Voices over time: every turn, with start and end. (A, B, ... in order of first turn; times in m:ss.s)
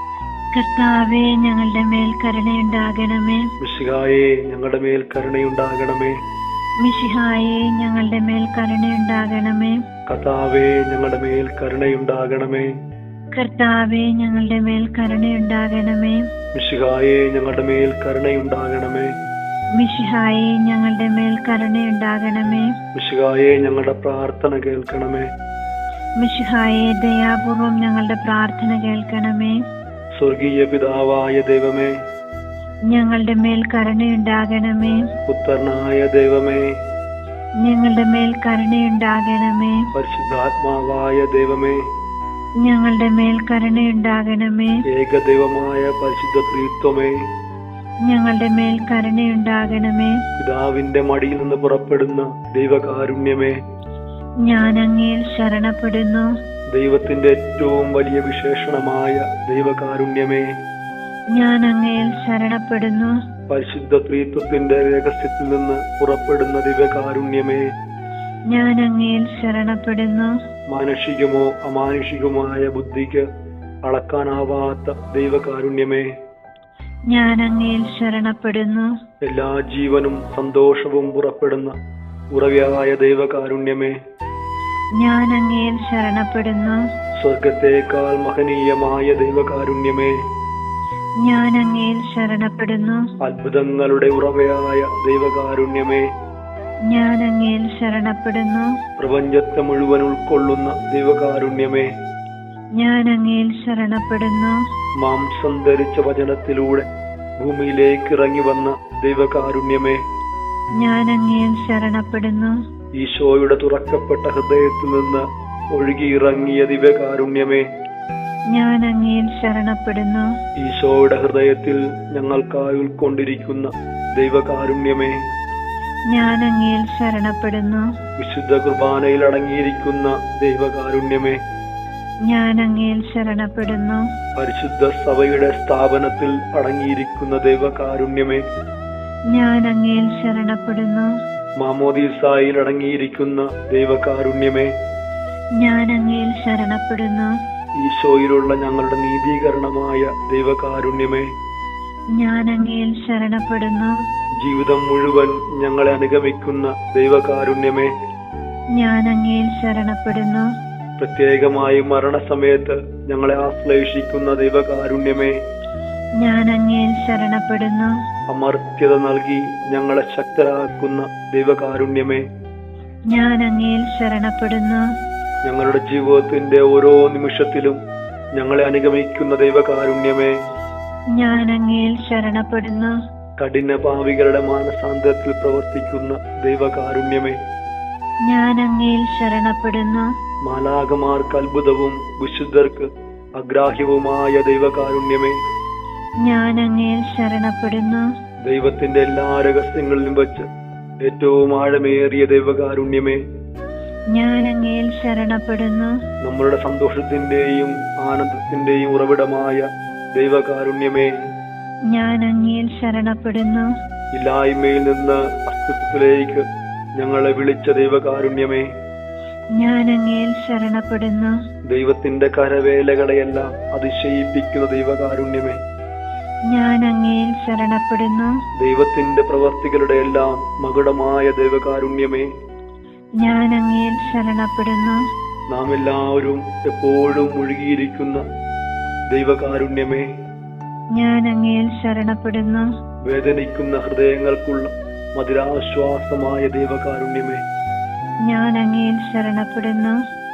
0:00.5-0:03.4 A
0:03.6-0:06.2 B
0:06.8-0:09.8 A
0:10.1-0:12.7 B
0:13.3-0:16.2 A
0:16.6-0:19.1 B
0:19.8-0:22.7 A
0:23.0-0:25.3 B
0:26.2-0:29.6 A
0:30.2-0:31.9 B
0:32.9-0:35.0 A
0:35.3-0:36.7 B
0:37.6-0:39.8 A
0:39.9-0:41.8 B
0:42.6-0:44.8 A
0:44.9-0:47.2 B
0:48.1-0:50.2 A
0:50.4-0:53.6 B
0:54.4-0:56.3 A
0:56.7-1:00.5 B
1:01.3-1:03.1 A
1:03.5-1:07.7 B
1:08.5-1:10.3 A
1:10.7-1:13.3 B
1:13.9-1:16.1 B
1:17.1-1:18.9 A
1:19.2-1:21.7 B
1:22.3-1:24.0 B
1:25.0-1:26.8 A
1:27.2-1:30.2 B
1:31.2-1:33.0 A
1:33.2-1:36.1 B
1:36.9-1:38.7 A
1:39.0-1:41.9 B
1:42.8-1:44.5 A
1:45.0-1:46.9 B
1:47.4-1:50.0 B
1:50.8-1:52.5 A
1:53.0-1:57.7 B
1:58.5-2:00.3 A
2:00.6-2:05.2 B
2:06.1-2:07.8 A
2:08.2-2:11.4 B
2:12.3-2:14.0 A
2:14.4-2:18.4 B
2:19.3-2:21.1 A
2:21.6-2:24.7 B
2:25.6-2:27.3 A
2:27.8-2:31.3 B
2:32.2-2:33.9 A
2:34.4-2:37.9 B
2:38.8-2:40.5 A
2:41.0-2:45.4 B
2:46.2-2:47.9 A
2:48.3-2:52.2 B
2:53.1-2:54.8 A
2:55.4-2:57.8 B
2:58.4-3:00.4 B
3:01.2-3:02.9 A
3:03.4-3:07.4 B
3:08.3-3:10.1 A
3:10.5-3:15.4 B
3:16.2-3:18.0 A
3:18.5-3:20.5 B
3:21.0-3:23.2 B
3:24.1-3:25.9 A
3:26.2-3:31.1 B
3:31.9-3:33.7 A
3:34.1-3:36.5 B
3:37.0-3:38.7 B
3:39.6-3:41.3 A
3:41.7-3:45.6 B
3:46.5-3:48.3 A
3:48.6-3:52.3 B
3:53.2-3:55.0 A
3:55.5-3:58.2 B
3:59.1-4:00.1 B
4:01.0-4:02.6 A
4:03.1-4:07.4 B
4:08.3-4:10.0 A